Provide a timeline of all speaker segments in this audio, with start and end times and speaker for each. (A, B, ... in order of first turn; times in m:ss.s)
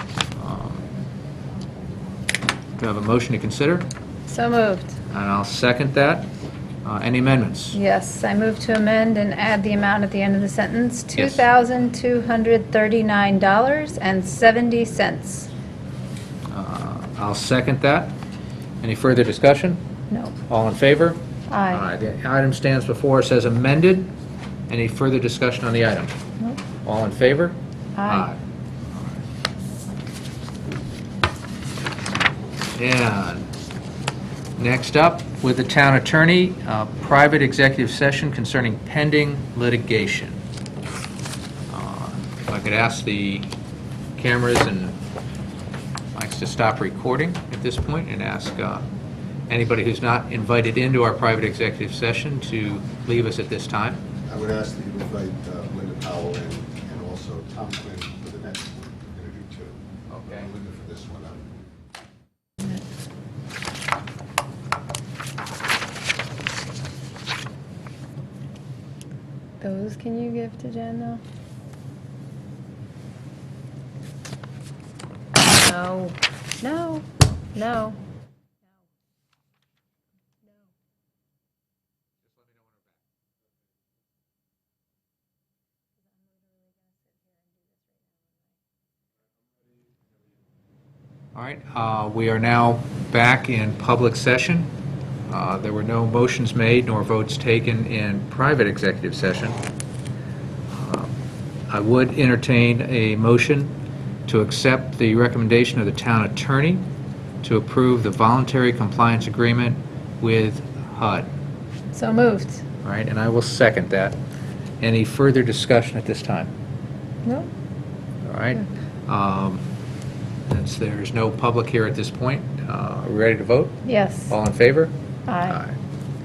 0:00.4-0:00.8 A
0:02.8-0:03.9 A
0:04.3-0:05.0 B
0:05.1-0:06.3 A
0:06.8-0:07.8 A
0:07.7-0:15.5 B
0:11.1-0:11.5 A
0:16.5-0:18.1 A
0:18.8-0:19.8 A
0:20.4-0:24.1 A
0:21.5-0:21.8 B
0:24.7-0:26.2 A
0:26.8-0:28.4 A
0:28.0-0:28.3 B
0:32.8-0:33.5 A
0:34.6-0:40.4 A
0:41.7-0:43.5 A
0:44.2-0:45.0 A
0:46.1-0:48.8 A
0:49.5-0:54.0 A
0:54.2-1:01.5 C
1:00.1-1:00.5 A
1:09.6-1:11.2 B
1:15.4-1:18.0 B
1:31.3-1:34.7 A
1:35.3-1:39.6 A
1:40.7-1:41.2 A
1:41.7-1:43.7 A
1:44.3-1:46.8 A
1:47.4-1:51.3 A
1:51.9-1:52.6 B
1:52.8-1:54.2 A
1:54.8-1:56.5 A
1:57.2-1:57.5 B
1:58.2-1:59.6 A
2:00.5-2:05.8 A
2:03.9-2:04.3 B
2:05.3-2:05.6 B